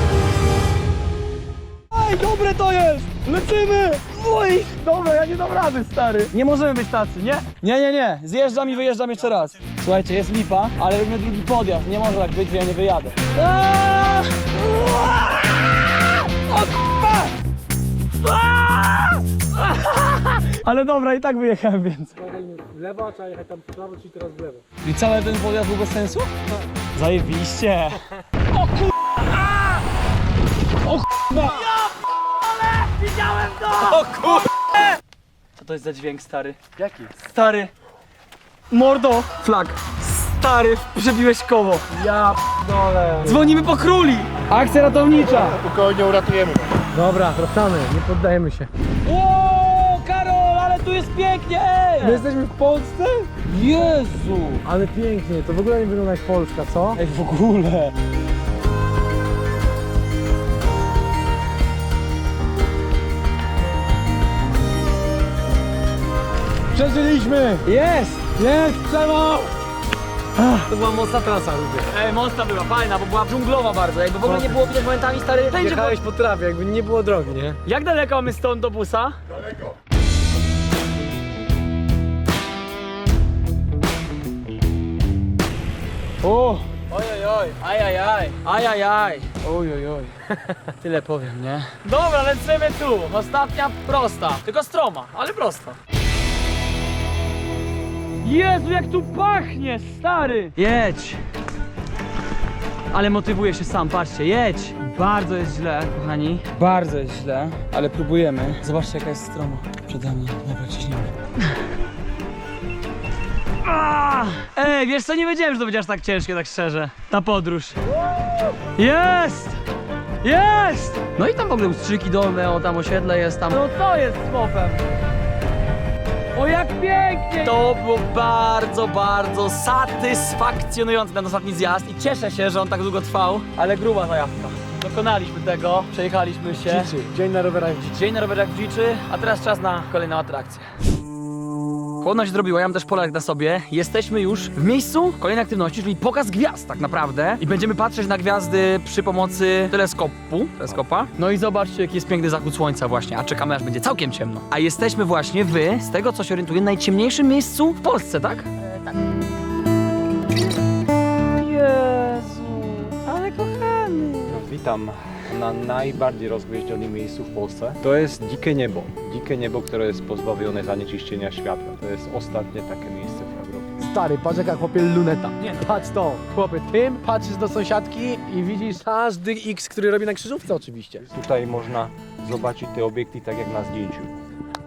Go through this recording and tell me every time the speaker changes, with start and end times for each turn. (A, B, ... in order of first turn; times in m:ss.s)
0:01.9-0:15.6 A
0:16.5-0:17.3 A
0:18.2-0:22.2 A
0:22.2-0:24.6 B
0:24.8-0:26.3 A
0:27.0-0:28.0 A
0:31.1-0:31.9 A
0:31.3-0:31.6 B
0:32.4-0:34.5 A
0:33.9-0:34.3 B
0:35.6-0:36.6 A
0:36.8-0:37.2 B
0:37.2-0:37.7 A
0:38.7-0:42.4 A
0:41.9-0:43.5 B
0:43.2-0:45.6 A
0:45.2-0:45.5 B
0:45.6-0:46.6 C
0:46.8-0:48.7 B
0:49.0-0:52.2 A
0:52.0-0:53.3 B
0:53.5-0:54.6 A
0:54.6-0:57.0 B
0:57.0-0:57.9 A
1:06.7-1:07.7 B
1:07.6-1:08.2 A
1:08.3-1:09.5 B
1:10.4-1:10.6 A
1:10.7-1:11.9 B
1:11.9-1:16.0 A
1:14.2-1:14.6 B
1:15.5-1:17.6 B
1:17.6-1:19.2 A
1:26.2-1:30.2 A
1:30.7-1:35.8 A
1:38.2-1:41.2 A
1:42.9-1:51.1 A
1:53.6-1:57.9 A
1:58.6-1:59.6 A
2:00.2-2:04.8 A
2:06.4-2:17.0 A
2:16.6-2:18.0 B
2:17.8-2:20.7 A
2:22.0-2:38.5 A
2:41.4-2:44.4 A
2:44.3-2:53.9 C
2:53.8-3:01.0 B
2:55.4-2:55.8 A
3:01.0-3:04.1 C